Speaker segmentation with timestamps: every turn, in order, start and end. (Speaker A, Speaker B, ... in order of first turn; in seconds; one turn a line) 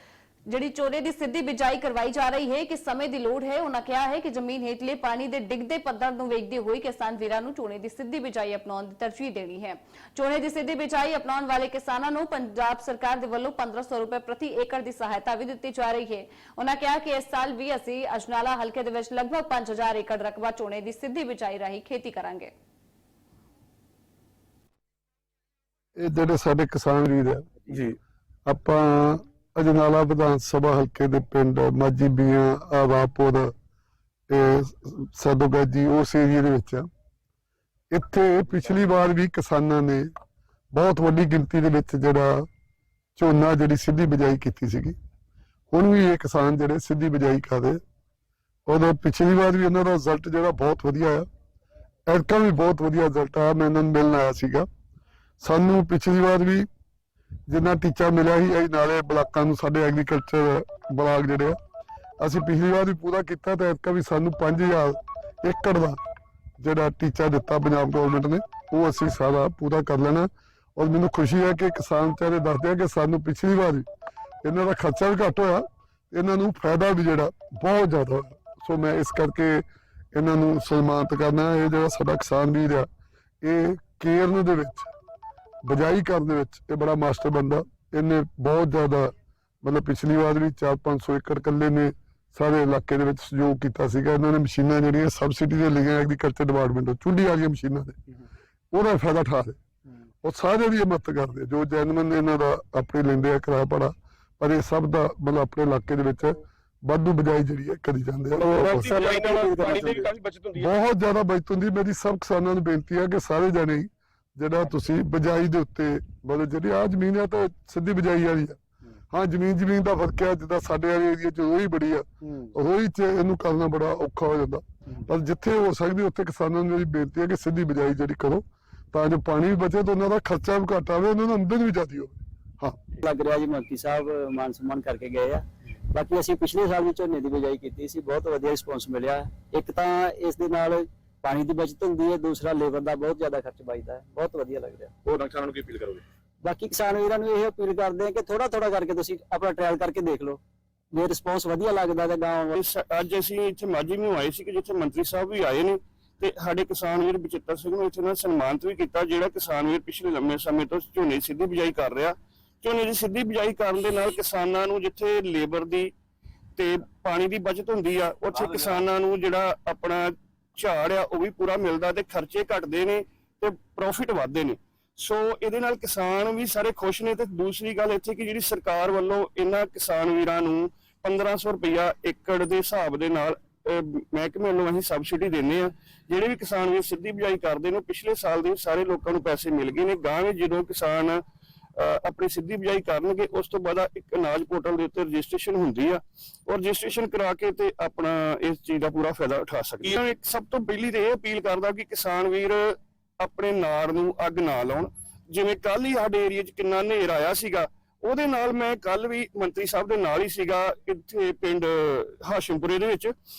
Speaker A: 0.5-22.5
Speaker B: 26.0-27.9
Speaker B: 28.5-33.5
Speaker B: 34.3-36.9
Speaker B: 37.9-40.1
Speaker B: 40.7-42.5
Speaker B: 43.2-45.0
Speaker B: 45.7-47.8
Speaker B: 48.7-51.3
Speaker B: 52.1-54.7
Speaker B: 55.4-56.7
Speaker B: 57.5-61.6
Speaker B: 62.2-66.0
Speaker B: 66.6-73.9
Speaker B: 74.4-82.9
Speaker B: 83.4-84.9
Speaker B: 85.6-98.0
Speaker B: 98.7-99.6
Speaker B: 100.2-109.0
Speaker C: 108.4-110.7
Speaker D: 108.6-110.1
Speaker B: 110.6-118.6
Speaker B: 119.1-132.8
Speaker D: 133.0-145.0
Speaker C: 145.1-146.0
Speaker D: 146.4-150.4
Speaker D: 150.9-152.6
Speaker E: 152.5-165.9
Speaker E: 166.6-191.2
Speaker C: 168.5-168.8
Speaker E: 191.8-213.1